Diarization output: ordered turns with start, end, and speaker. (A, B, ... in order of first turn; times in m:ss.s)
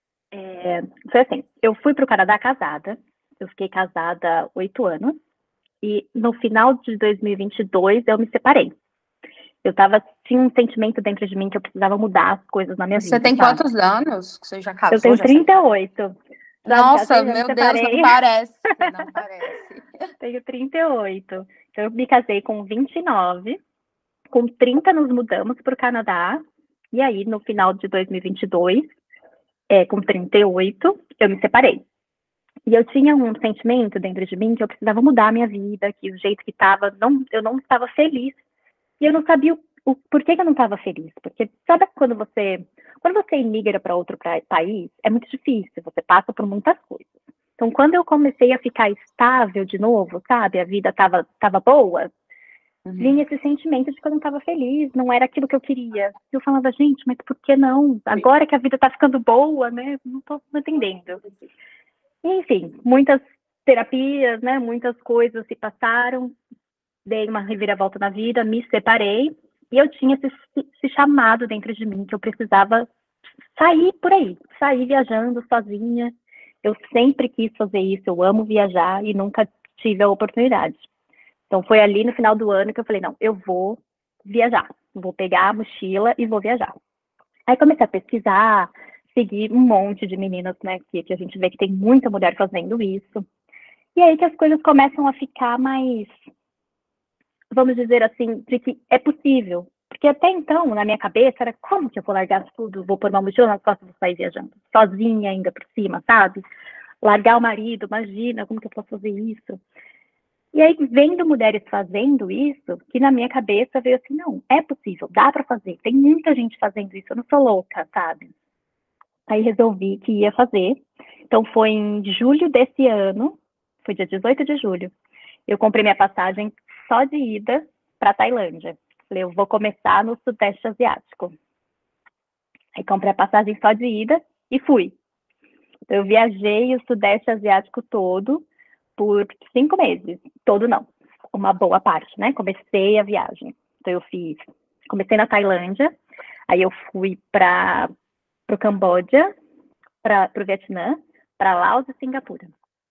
0:00.3-0:05.2 A
0:05.8-0:08.7 A
0:09.6-0:13.6 A
0:13.0-0:15.7 B
0:14.9-0:16.1 A
0:16.7-0:18.1 A
0:16.7-0:20.0 B
0:20.2-0:23.6 A
0:24.3-0:28.9 A
0:29.7-0:31.8 A
0:32.7-0:38.4 A
0:39.0-0:52.1 A
0:52.8-0:53.2 B
0:53.0-1:01.2 A
1:02.2-1:06.4 A
1:07.0-1:12.9 A
1:13.6-1:20.9 A
1:21.5-1:26.7 A
1:27.5-1:33.2 A
1:34.0-1:36.1 A
1:37.5-1:46.4 A
1:47.0-1:49.6 A
1:50.5-1:58.3 A
1:59.3-2:04.9 A
2:05.5-2:11.3 A
2:12.7-2:15.0 A
2:15.9-2:18.4 A
2:19.0-2:25.9 A
2:26.5-2:27.9 A
2:28.5-2:29.3 A
2:30.0-2:32.5 A